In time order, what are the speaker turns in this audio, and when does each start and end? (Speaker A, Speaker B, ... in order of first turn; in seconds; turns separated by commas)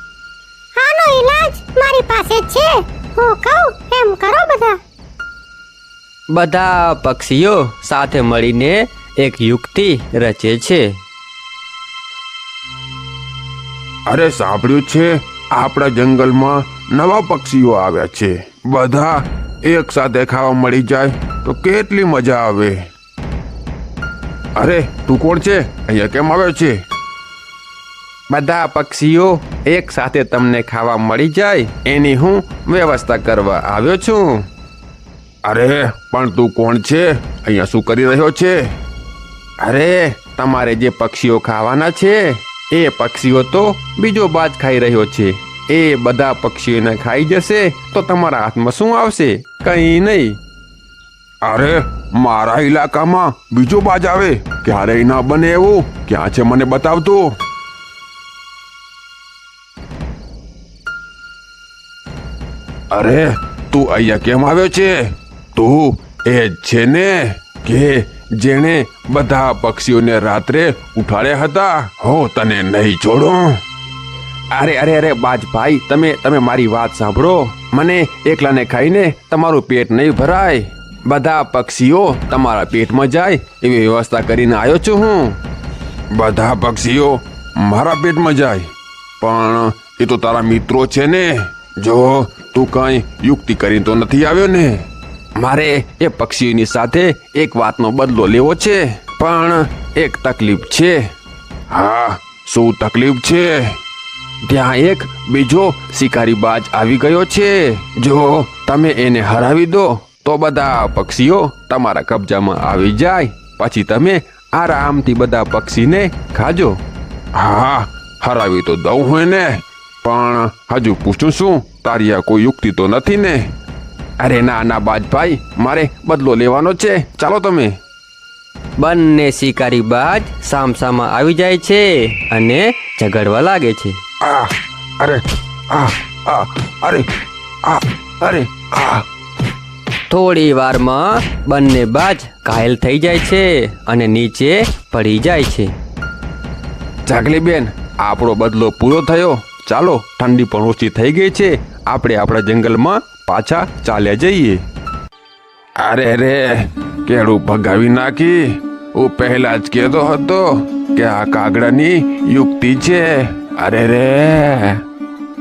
Speaker A: 0.8-4.8, Speaker B: 6.3-10.9, Speaker C: 6.3-6.8, Speaker C: 14.1-22.9, Speaker C: 24.6-26.8, Speaker C: 28.3-34.5, Speaker C: 35.4-38.7, Speaker C: 39.6-50.4, Speaker C: 51.4-57.3, Speaker C: 62.9-73.6, Speaker C: 74.5-85.4, Speaker C: 86.1-101.0, Speaker C: 101.7-103.8, Speaker C: 104.4-116.8, Speaker C: 117.3-123.5, Speaker C: 124.2-127.7, Speaker B: 128.8-134.0, Speaker C: 129.4-131.2, Speaker C: 134.2-137.1, Speaker C: 137.6-139.0, Speaker C: 140.1-145.6, Speaker B: 140.1-145.7, Speaker C: 147.1-154.6, Speaker C: 155.8-158.4, Speaker C: 158.9-164.8